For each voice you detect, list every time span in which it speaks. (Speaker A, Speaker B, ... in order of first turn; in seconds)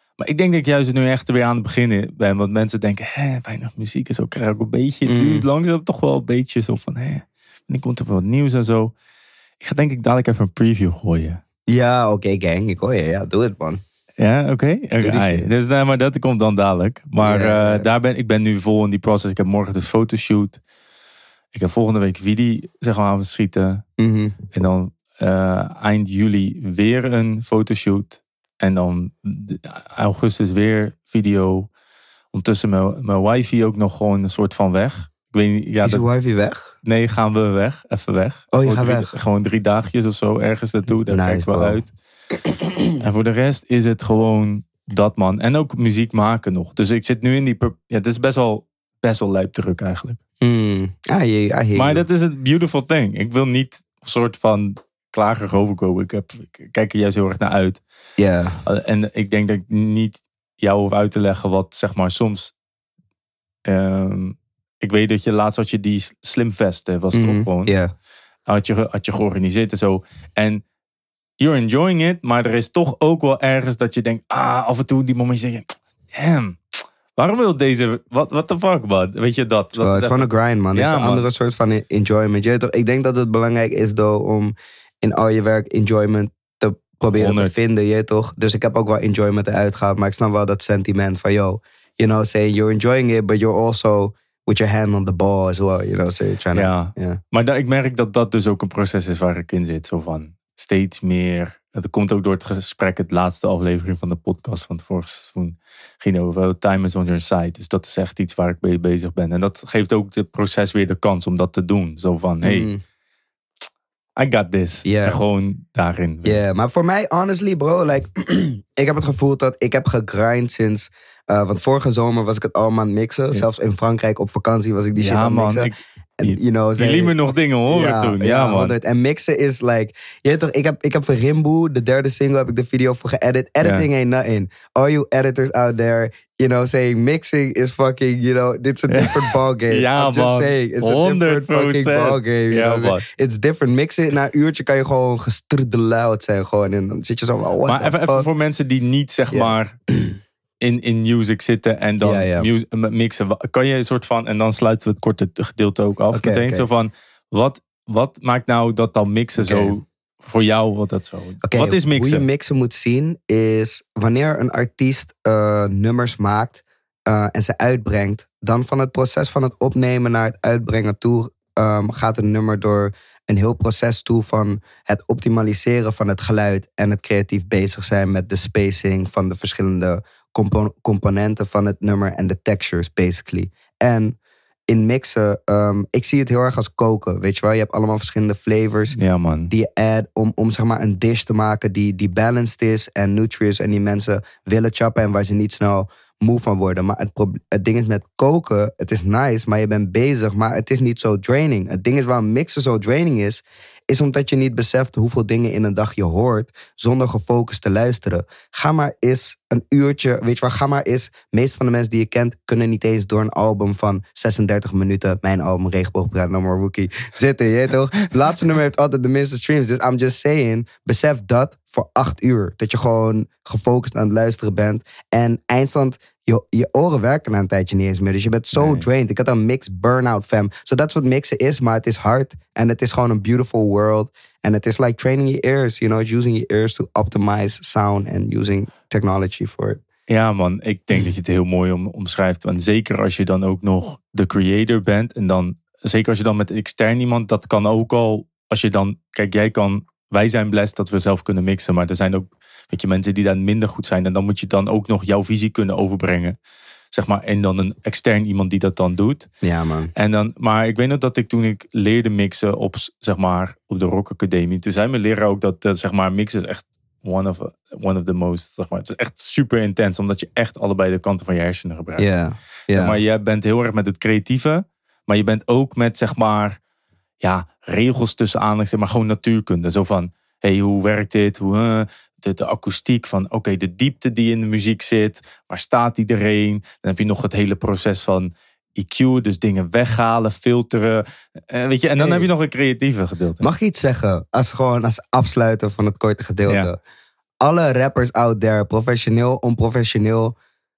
Speaker A: 0.2-8.9, 9.6-11.4, 14.2-20.6, 21.5-23.8, 24.5-31.7, 32.3-36.0, 36.8-41.9, 43.0-50.2, 51.7-57.8, 58.6-62.5, 63.7-67.7, 68.5-70.6, 71.4-76.6, 77.2-81.2, 87.1-87.5, 96.5-112.7, 114.2-116.4, 125.0-128.8, 133.6-133.9, 138.9-143.0, 147.7-149.7, 150.6-162.2, 188.9-189.5, 228.5-228.8, 240.1-256.4, 256.9-259.3, 259.9-272.1, 272.7-276.6, 277.2-293.5
Speaker B: 5.1-5.5, 11.7-13.8, 15.0-15.5, 17.2-17.9, 24.0-24.3, 35.8-36.7, 38.5-39.1, 41.0-41.8, 42.5-42.7, 50.4-52.0, 58.2-58.6, 67.1-67.9, 79.8-97.2, 112.4-112.8, 114.8-115.2, 116.2-127.2, 127.7-148.3, 149.3-150.2, 152.0-152.5, 156.1-156.7, 159.4-159.7, 161.4-184.2, 184.7-189.0, 189.5-239.8, 259.4-259.9, 272.0-273.0, 292.0-292.3, 293.4-296.8, 297.4-300.4